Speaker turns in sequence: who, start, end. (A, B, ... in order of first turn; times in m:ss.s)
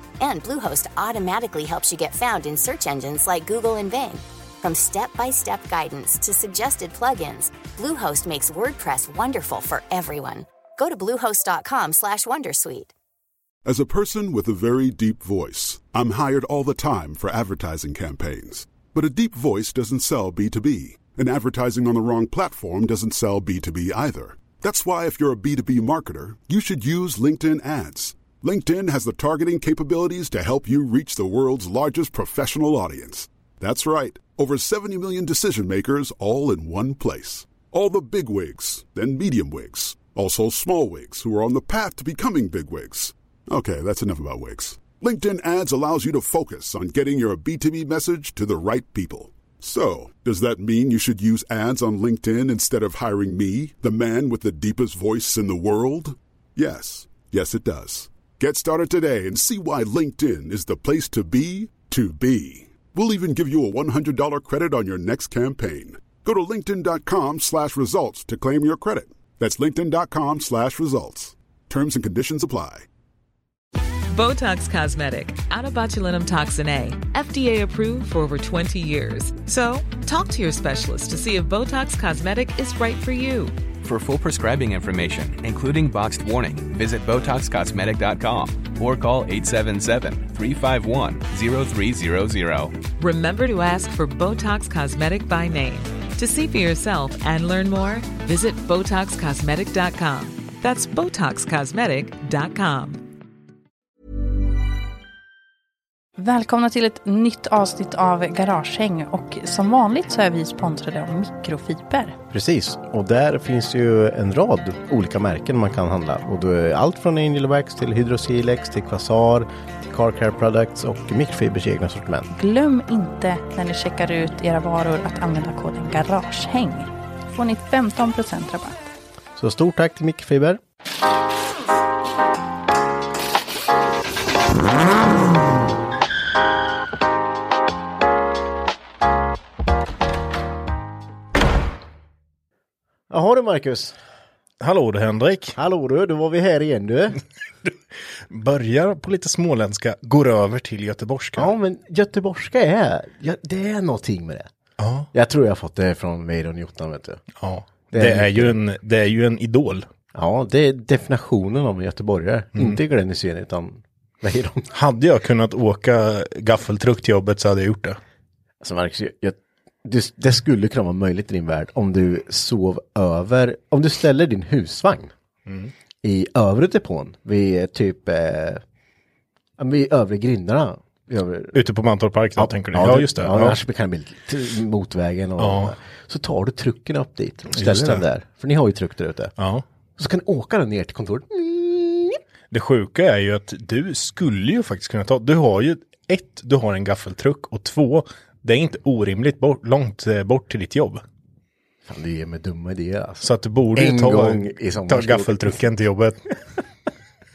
0:00.2-0:12.9 A
0:13.7-1:12.8 B
1:14.1-1:23.6 C
1:23.8-1:32.8 D
1:33.0-1:43.0 C
1:46.2-1:52.2 E
1:52.3-2:02.3 F
2:02.3-2:08.9 E
2:09.4-2:10.6 F
2:23.1-2:24.0 F
2:24.6-2:25.6 G
2:25.6-2:27.2 F
2:28.3-2:31.5 G
2:31.4-2:34.5 F
2:34.8-2:35.1 G
2:35.1-2:37.2 F
2:37.4-2:39.9 G
2:37.9-2:38.6 F
2:40.1-2:44.7 F
2:44.7-2:48.0 G
2:48.6-2:55.1 F
2:55.5-2:55.7 G
2:56.0-2:58.6 F
2:59.6-3:01.6 F
3:01.5-3:03.6 G
3:02.4-3:09.3 F
3:05.4-3:05.8 G
3:07.5-3:08.0 G
3:09.4-3:09.6 G
3:10.0-3:12.2 F
3:12.5-3:21.0 G
3:21.9-3:25.6 F
3:23.2-3:26.2 G